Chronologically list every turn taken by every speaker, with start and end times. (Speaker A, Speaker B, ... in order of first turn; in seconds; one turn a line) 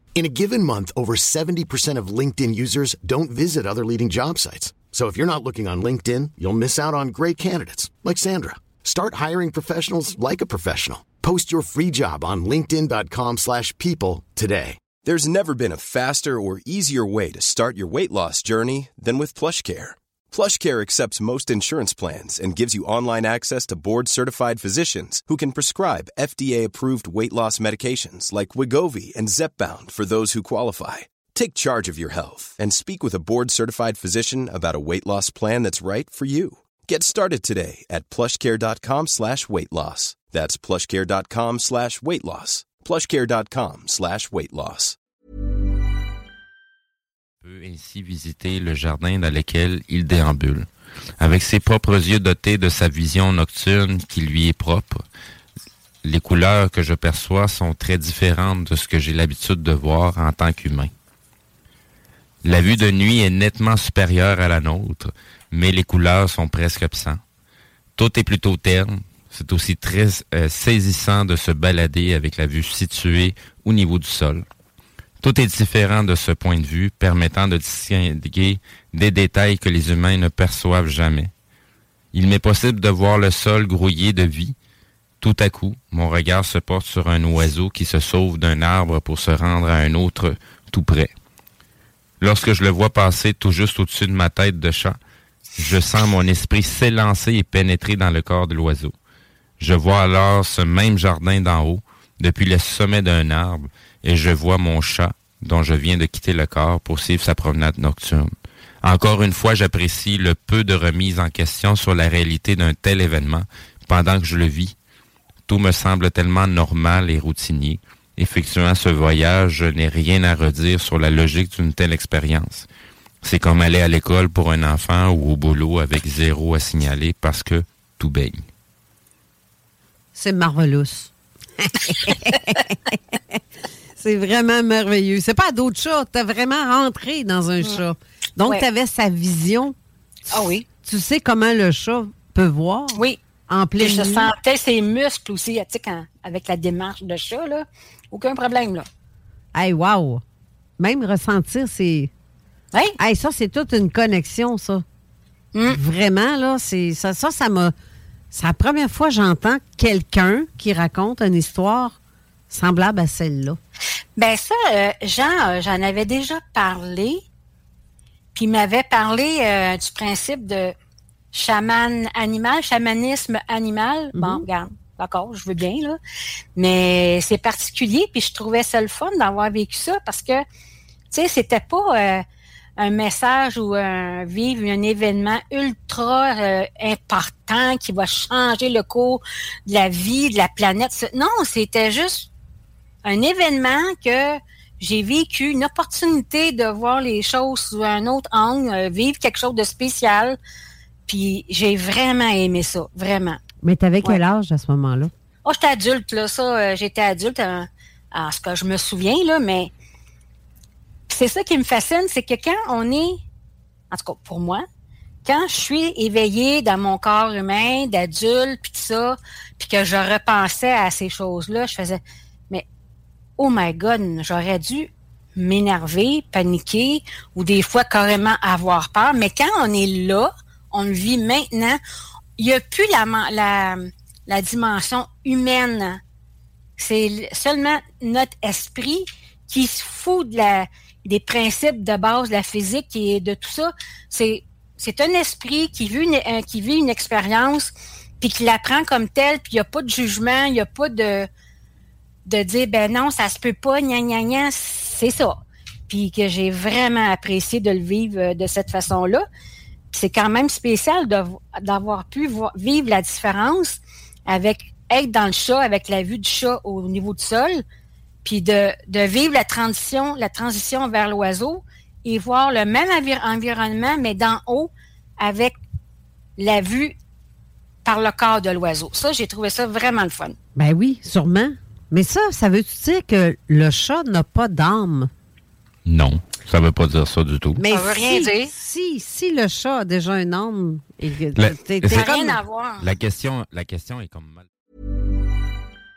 Speaker A: 0.1-14.9
Speaker B: 15.0-45.0
Speaker C: 47.4-50.7
Speaker C: 51.2-55.0
Speaker C: 56.0-60.9
Speaker C: 62.4-67.2
Speaker C: 68.0-74.5
Speaker C: 75.2-81.3
Speaker C: 82.1-84.5
Speaker C: 85.2-91.1
Speaker C: 92.2-95.0
Speaker C: 95.6-98.9
Speaker C: 99.6-108.3
Speaker C: 108.8-114.8
Speaker C: 115.5-122.7
Speaker C: 123.2-128.4
Speaker D: 130.2-131.1
Speaker D: 131.7-132.8
Speaker D: 134.0-139.7
Speaker E: 140.3-140.7
Speaker D: 140.8-144.3
Speaker E: 142.9-143.2
Speaker E: 143.8-148.8
Speaker D: 149.5-150.2
Speaker D: 150.8-152.1
Speaker D: 153.0-154.8
Speaker E: 155.5-155.8
Speaker D: 155.7-157.7
Speaker D: 158.3-161.9
Speaker D: 162.5-163.6
Speaker E: 164.2-167.2
Speaker E: 168.3-170.7
Speaker E: 171.3-176.0
Speaker D: 174.1-174.4
Speaker E: 176.6-180.4
Speaker E: 181.1-182.2
Speaker E: 182.8-192.3
Speaker E: 193.0-200.4
Speaker E: 201.1-203.4
Speaker D: 203.6-205.1
Speaker E: 205.4-209.7
Speaker E: 211.1-213.2
Speaker E: 213.9-214.6
Speaker E: 215.2-222.6
Speaker E: 223.4-231.8
Speaker E: 232.4-236.0
Speaker E: 236.8-251.3
Speaker E: 252.2-255.3
Speaker E: 255.9-259.2
Speaker E: 259.9-267.6
Speaker E: 268.2-275.6
Speaker E: 276.4-276.9
Speaker E: 277.8-280.4
Speaker D: 280.6-285.1
Speaker C: 285.8-287.6
Speaker D: 287.6-292.4
Speaker E: 287.7-288.5
Speaker C: 291.3-292.1
Speaker E: 291.9-292.9
Speaker C: 292.8-294.5